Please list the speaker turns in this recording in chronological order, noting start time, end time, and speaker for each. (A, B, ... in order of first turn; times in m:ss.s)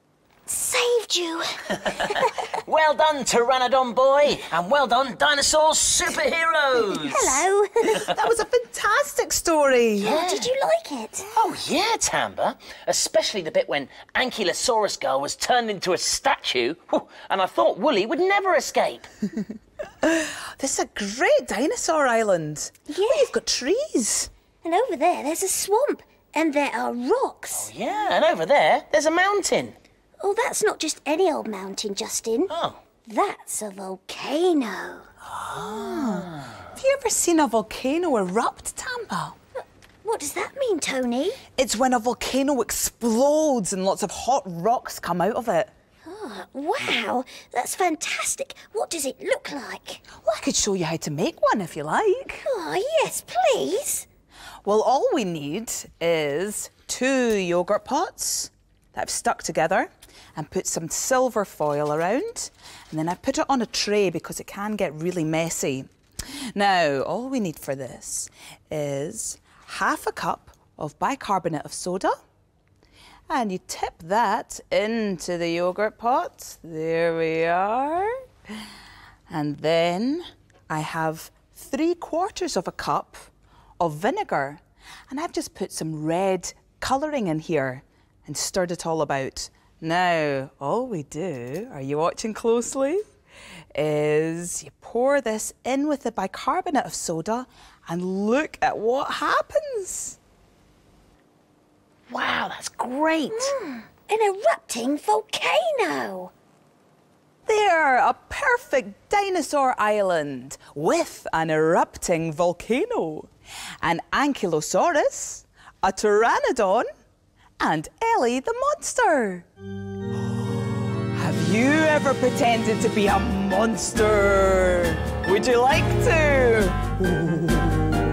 0:00.5-0:02.3 A
0:02.1-0:07.4 B
0:06.8-0:08.1 A
0:07.8-0:10.2 C
0:10.0-0:10.5 B
0:10.0-0:11.3 A
0:11.3-0:19.1 B
0:20.0-0:24.3 C
0:22.9-0:23.3 A
0:24.6-0:27.7 A
0:27.5-0:29.8 B
0:30.2-0:32.5 A
0:32.5-0:32.8 B
0:33.0-0:35.1 A
0:35.4-0:39.4 C
0:36.0-0:36.4 B
0:39.6-0:41.4 A
0:41.6-0:45.7 C
0:46.0-0:50.0 A
0:50.2-0:52.4 C
0:52.4-0:54.0 A
0:54.6-1:12.2 C
1:13.3-1:18.2 C
1:19.3-1:33.0 C
1:33.7-1:40.2 C
1:42.1-1:43.5 B
1:43.3-1:46.3 A
1:47.4-1:53.3 C
1:53.8-1:56.9 C
1:57.6-1:59.4 C
2:01.1-2:07.5 C